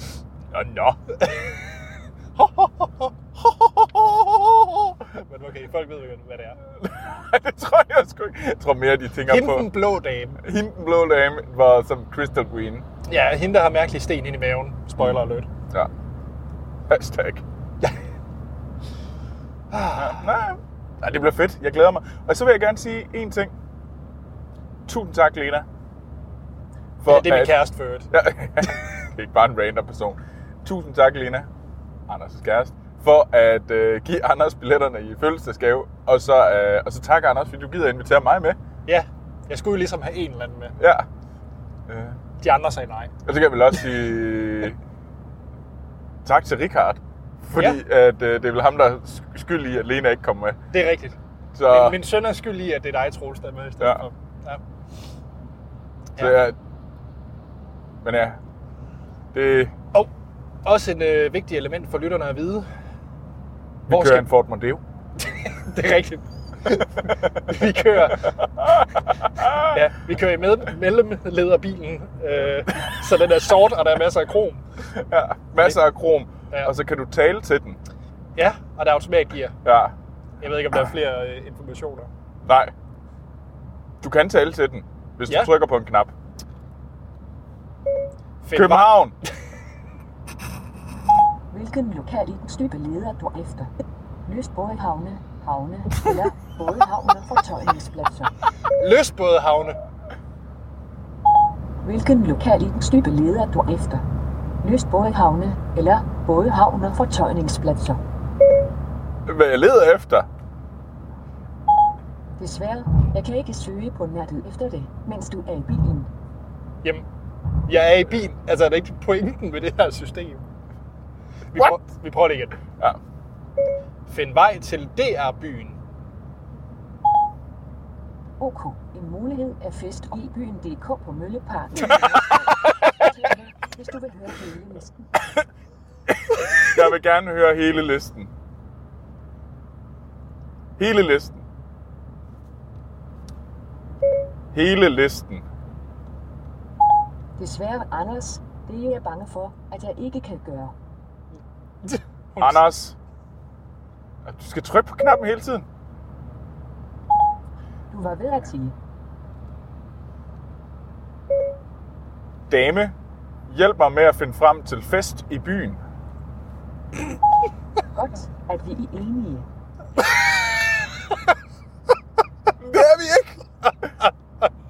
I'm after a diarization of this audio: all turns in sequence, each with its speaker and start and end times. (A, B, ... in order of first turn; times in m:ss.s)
0:00.5-0:01.0 A
0:01.2-0:01.8 B
0:02.4-0:03.1 B
0:03.4-0:05.0 A
0:05.1-0:06.6 B
0:06.8-0:09.7 A
0:09.3-0:10.4 B
0:10.4-0:12.9 A
0:13.1-0:15.5 B
0:16.9-0:17.4 A
0:19.7-0:20.3 B
0:20.0-0:23.5 A
0:24.9-0:25.7 A
0:27.0-0:31.5 A
0:27.1-0:28.1 B
0:32.1-0:38.6 A
0:38.9-0:40.8 B
0:40.8-0:41.1 A
0:41.9-0:42.2 A
0:42.4-0:43.1 B
0:43.3-0:44.8 A
0:46.2-0:50.6 A
0:50.7-0:51.2 B
0:51.6-0:52.0 A
0:51.7-0:54.6 B
0:56.2-0:56.6 A
0:58.0-0:58.4 A
0:59.3-0:59.7 A
1:00.6-1:02.7 B
1:03.9-1:04.8 A
1:03.9-1:04.3 B
1:05.2-1:08.5 B
1:08.4-1:09.8 A
1:09.0-1:14.6 B
1:14.9-1:17.8 A
1:18.4-1:19.6 B
1:19.6-1:19.9 A
1:20.4-1:22.1 B
1:22.4-1:22.7 A
1:24.0-1:26.1 A
1:25.3-1:25.5 B
1:28.4-1:28.9 B
1:28.5-1:29.2 A
1:31.5-1:33.7 C
1:34.3-1:38.3 C
1:38.7-1:39.8 B
1:41.8-1:44.0 C
1:44.6-1:48.0 C
1:49.3-1:50.3 A
1:52.4-1:56.1 C
1:57.6-2:00.4 B
2:01.5-2:02.6 B
2:04.1-2:05.8 B
2:08.4-2:15.1 C
2:12.0-2:13.1 A
2:16.3-2:18.3 A
2:20.8-2:21.4 A
2:24.5-2:25.5 A
2:27.4-2:30.7 C
2:31.8-2:32.6 B
2:32.4-2:33.0 A
2:34.3-2:35.7 A
2:37.9-2:38.7 C
2:42.5-2:43.0 A
2:43.5-2:45.8 A
2:47.9-2:49.5 C
2:52.6-2:53.4 A